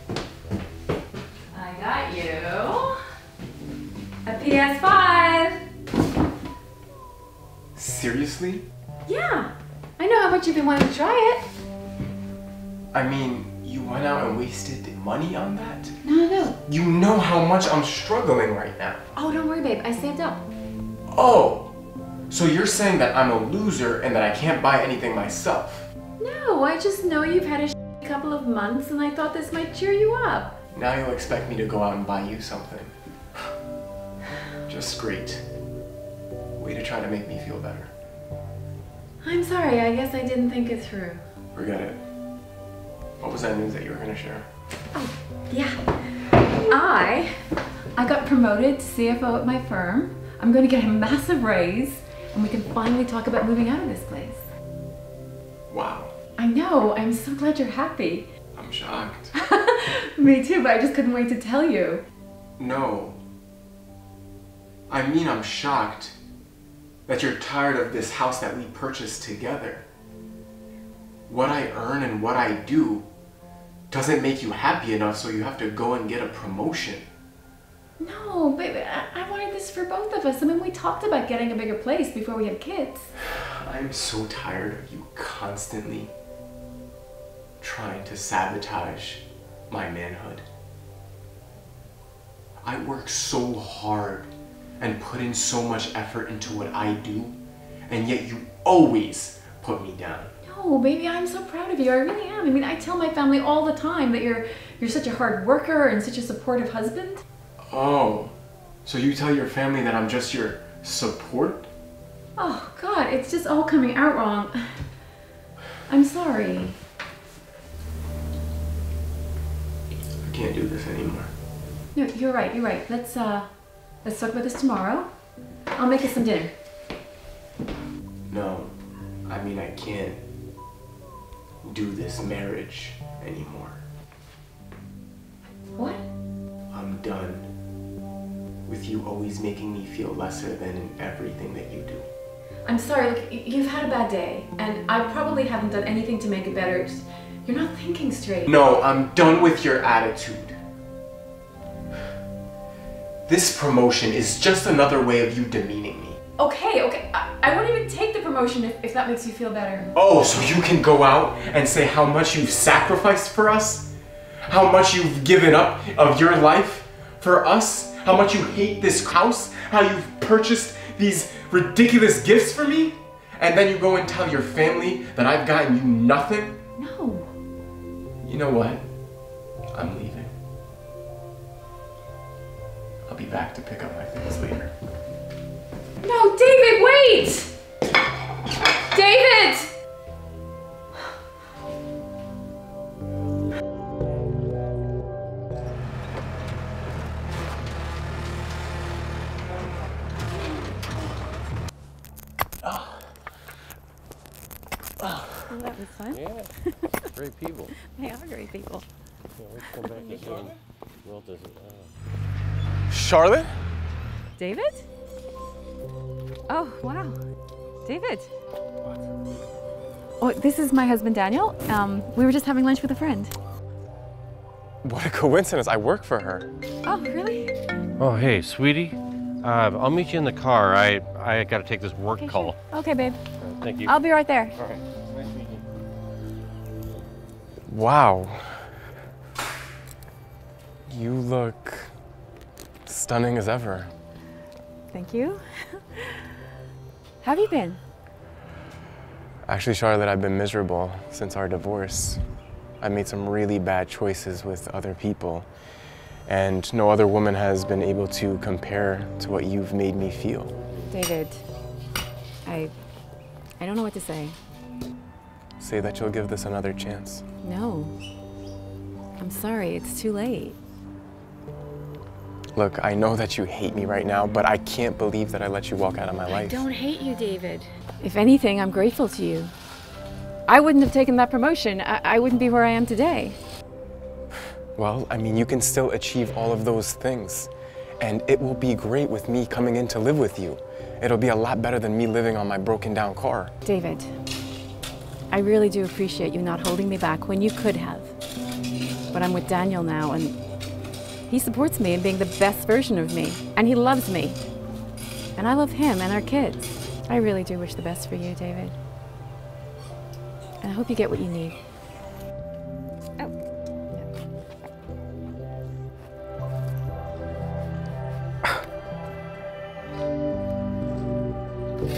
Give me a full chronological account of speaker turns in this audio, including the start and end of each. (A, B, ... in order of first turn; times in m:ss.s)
0:01.5-0:03.0 A
0:04.2-0:05.6 A
0:07.8-0:08.6 B
0:09.1-0:11.5 A
0:12.9-0:15.9 B
0:16.0-0:16.6 A
0:16.6-0:19.0 B
0:19.2-0:20.4 A
0:21.1-0:21.7 B
0:22.3-0:25.9 B
0:26.2-0:30.6 A
0:30.7-0:33.0 B
0:34.7-0:35.4 B
0:36.6-0:37.9 B
0:39.2-0:41.2 A
0:41.5-0:42.0 B
0:43.2-0:44.5 B
0:44.9-0:45.8 A
0:46.5-0:47.4 A
0:48.0-0:54.5 A
0:55.7-0:56.1 B
0:56.4-0:58.3 A
0:58.6-0:59.3 B
0:59.3-1:02.0 A
1:02.6-1:03.2 B
1:04.9-1:06.2 B
1:07.1-1:09.9 B
1:11.3-1:13.1 B
1:13.9-1:17.1 B
1:18.0-1:23.1 A
1:23.6-1:26.1 B
1:27.6-1:30.5 B
1:32.6-1:37.4 B
1:37.9-1:40.3 B
1:40.4-1:47.2 A
1:47.7-1:51.7 B
1:52.4-1:54.8 A
1:55.9-1:56.8 A
2:00.2-2:01.3 B
2:01.9-2:03.5 A
2:04.0-2:05.1 A
2:05.8-2:06.5 A
2:08.3-2:08.7 B
2:09.3-2:10.2 B
2:11.6-2:13.8 B
2:15.8-2:16.0 A
2:16.7-2:17.5 B
2:18.7-2:22.1 B
2:22.7-2:28.5 A
2:28.5-2:30.6 B
2:33.3-2:36.2 B
2:36.4-2:39.9 A
2:39.9-2:43.9 B
2:44.5-2:56.6 B
2:56.8-2:57.3 A
2:58.2-2:58.9 B
2:59.7-3:00.3 B
3:03.1-3:04.7 B
3:06.0-3:07.5 A
3:08.9-3:09.7 A
3:25.5-3:27.0 A
3:26.1-3:26.5 C
3:27.1-3:27.7 C
3:27.8-3:28.8 A
3:29.4-3:30.5 C
3:31.0-3:31.9 C
3:32.9-3:33.5 B
3:34.4-3:34.9 A
3:36.5-3:37.2 A
3:37.8-3:38.3 A
3:40.2-3:43.3 A
3:44.8-3:46.5 B
3:46.8-3:47.5 A
3:48.0-3:52.6 C
3:52.2-3:53.2 A
3:53.4-3:54.0 C
3:53.8-3:54.6 A
3:54.6-3:55.6 C
3:57.7-3:58.7 B
4:00.9-4:01.9 B
4:02.9-4:03.9 B
4:04.9-4:06.2 A
4:07.2-4:07.8 A
4:09.5-4:12.2 B
4:12.8-4:15.5 B
4:16.3-4:20.5 B
4:20.9-4:21.4 A
4:22.4-4:22.7 A
4:23.6-4:24.4 A
4:25.6-4:27.2 B
4:27.4-4:28.0 A
4:29.2-4:30.6 A
4:32.6-4:36.7 B
4:36.3-4:39.5 A
4:40.5-4:43.4 A
4:44.8-4:53.5 B
4:53.6-4:54.1 A
4:55.3-4:58.2 A
4:59.1-5:00.4 A
5:01.3-5:04.4 A
5:05.4-5:08.8 A
5:10.6-5:11.6 A